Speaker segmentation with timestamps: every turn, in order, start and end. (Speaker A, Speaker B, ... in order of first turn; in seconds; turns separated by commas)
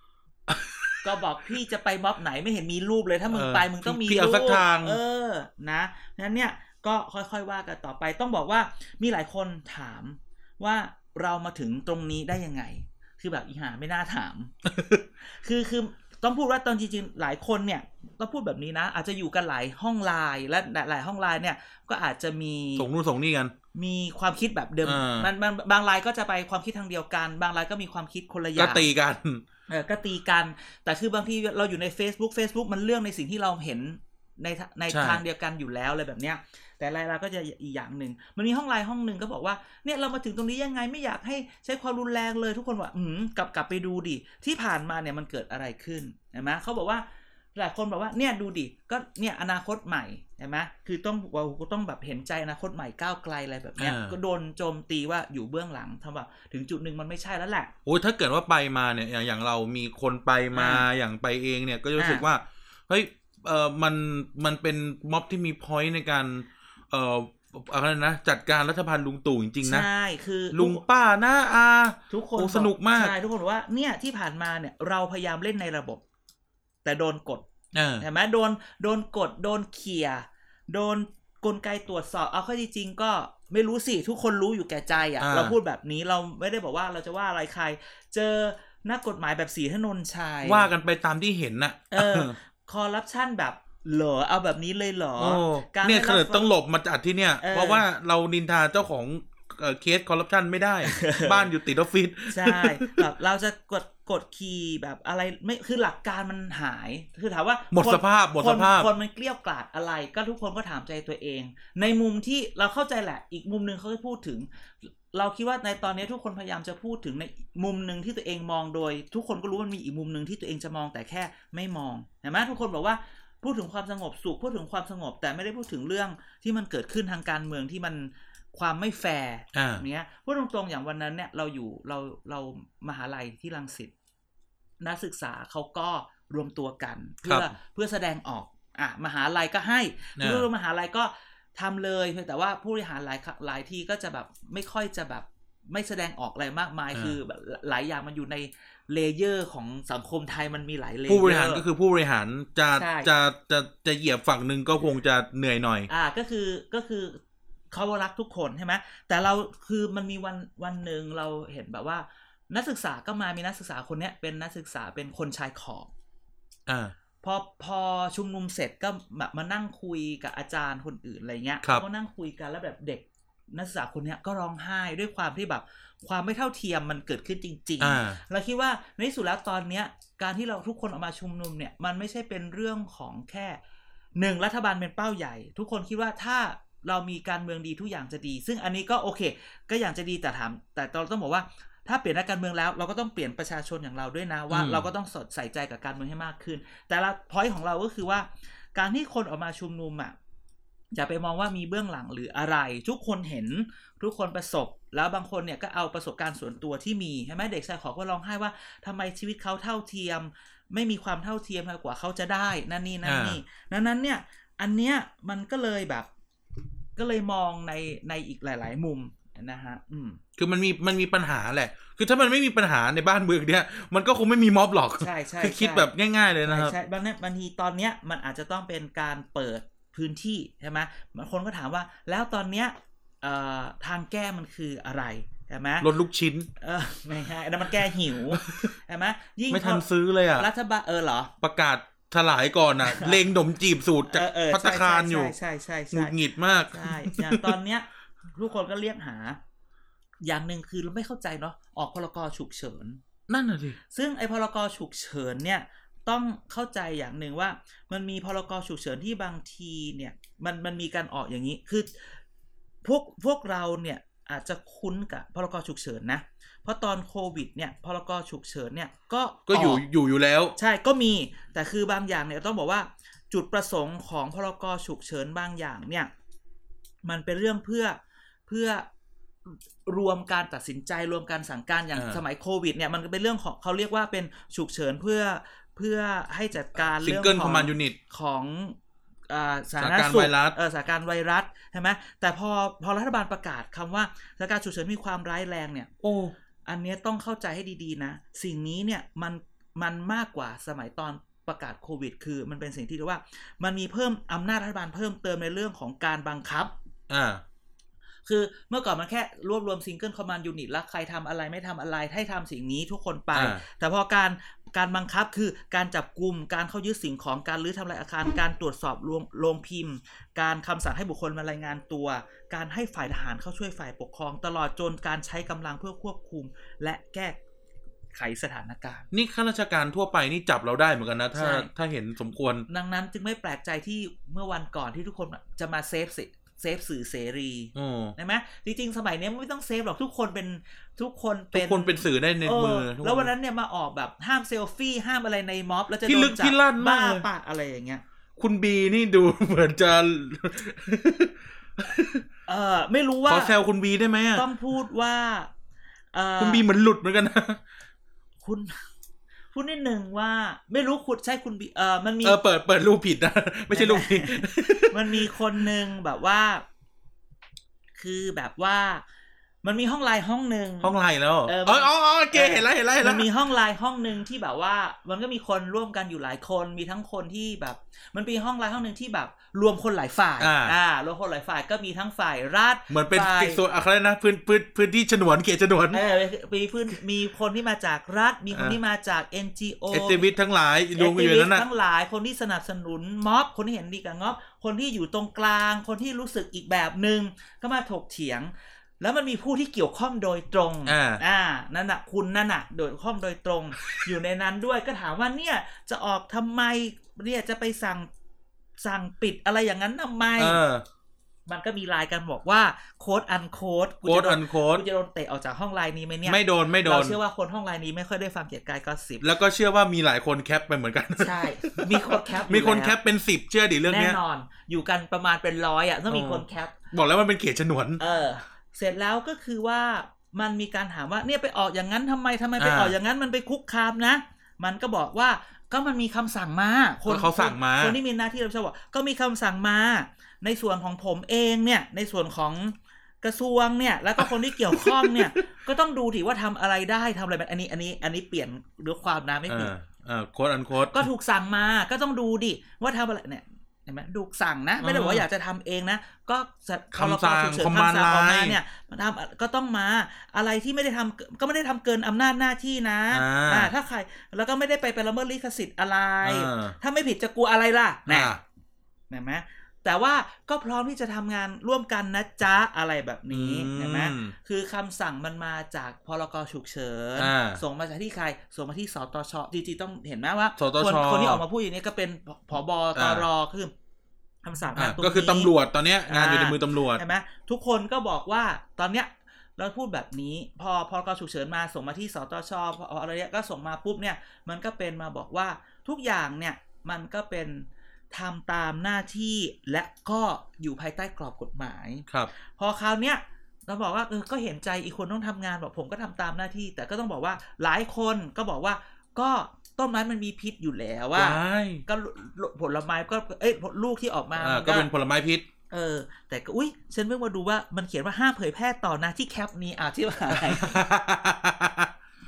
Speaker A: 0.5-1.1, Speaker B: 1.0-14.5, Speaker A: 3.3-5.0, Speaker A: 14.6-15.0, Speaker B: 15.2-22.9, Speaker A: 22.8-23.5, Speaker B: 23.7-28.9, Speaker A: 24.8-25.3, Speaker A: 28.6-29.4, Speaker B: 29.7-57.7, Speaker A: 34.9-35.2, Speaker A: 53.8-54.2, Speaker A: 57.8-69.9, Speaker B: 60.5-60.8, Speaker B: 62.0-62.2, Speaker B: 69.6-70.8, Speaker A: 70.5-73.1, Speaker B: 72.1-76.0, Speaker B: 76.8-77.5, Speaker A: 77.7-78.0, Speaker B: 78.0-90.7, Speaker A: 85.2-85.5, Speaker A: 90.4-92.3, Speaker B: 91.9-96.5, Speaker A: 95.2-103.0, Speaker B: 97.4-97.8, Speaker B: 100.8-101.5, Speaker B: 102.3-133.9, Speaker A: 107.7-108.9, Speaker A: 129.5-129.8, Speaker B: 134.8-151.6, Speaker A: 137.2-137.5, Speaker A: 140.2-140.5, Speaker A: 151.1-155.9, Speaker B: 152.8-153.1, Speaker B: 155.9-157.2, Speaker B: 157.7-165.9, Speaker A: 166.7-166.9, Speaker B: 167.2-183.6, Speaker A: 177.8-178.2, Speaker B: 184.2-200.1, Speaker A: 194.5-194.9, Speaker B: 200.9-216.1, Speaker A: 213.0-213.4, Speaker B: 216.9-220.2, Speaker A: 220.4-226.7, Speaker B: 225.0-225.9, Speaker B: 226.4-235.9, Speaker A: 235.8-236.5, Speaker B: 236.6-241.3, Speaker A: 238.3-238.7, Speaker A: 239.5-240.5, Speaker A: 241.4-245.3, Speaker B: 242.8-243.2, Speaker B: 244.1-246.1, Speaker A: 245.9-247.5, Speaker B: 246.7-249.4, Speaker B: 250.2-253.0, Speaker A: 253.3-253.8, Speaker B: 253.9-262.2, Speaker B: 262.8-269.8, Speaker A: 269.5-270.5, Speaker B: 270.6-276.1, Speaker B: 277.0-278.9, Speaker B: 279.4-288.8, Speaker A: 281.9-282.2, Speaker A: 287.0-288.0, Speaker B: 289.3-295.9, Speaker A: 289.8-290.6, Speaker A: 296.0-296.3, Speaker B: 296.6-306.7, Speaker A: 307.1-307.4, Speaker B: 308.2-327.4, Speaker A: 313.3-313.6, Speaker B: 328.1-329.1, Speaker A: 329.1-332.7, Speaker B: 331.3-331.7, Speaker B: 332.7-348.0, Speaker A: 337.7-338.1, Speaker A: 341.5-343.3, Speaker A: 346.0-347.3, Speaker A: 348.4-352.2, Speaker B: 352.5-353.5, Speaker A: 353.3-354.4, Speaker B: 354.3-355.5, Speaker B: 356.1-356.6, Speaker A: 356.4-357.6, Speaker B: 358.4-358.8, Speaker B: 359.5-362.4, Speaker A: 362.2-365.3, Speaker B: 363.7-366.6, Speaker B: 368.0-369.0, Speaker B: 369.6-370.9, Speaker A: 370.8-373.3, Speaker B: 371.4-383.6, Speaker A: 380.4-380.8, Speaker A: 382.9-386.0, Speaker B: 385.9-390.3, Speaker A: 388.5-388.8, Speaker A: 389.9-391.6, Speaker B: 390.9-408.1, Speaker A: 400.9-401.2, Speaker B: 408.8-410.6, Speaker A: 410.4-410.8, Speaker B: 411.5-419.3, Speaker A: 414.0-414.8, Speaker A: 416.2-417.2, Speaker A: 419.2-424.2, Speaker B: 421.2-423.0, Speaker B: 423.8-426.8, Speaker A: 426.1-428.0, Speaker B: 428.0-449.7, Speaker A: 432.6-432.9, Speaker A: 437.1-438.0, Speaker A: 444.2-445.4, Speaker A: 449.5-451.1, Speaker B: 450.9-468.3, Speaker A: 454.8-455.2, Speaker A: 456.9-458.6, Speaker A: 463.1-463.7, Speaker A: 466.2-466.8, Speaker A: 468.1-468.4, Speaker B: 469.1-483.7, Speaker A: 473.3-474.3, Speaker A: 477.2-477.6, Speaker A: 480.6-481.4, Speaker A: 482.9-483.3, Speaker B: 484.4-485.5, Speaker A: 484.8-487.0, Speaker B: 486.1-514.9, Speaker A: 511.1-511.8, Speaker A: 514.4-515.4, Speaker B: 515.7-520.8, Speaker A: 520.3-521.9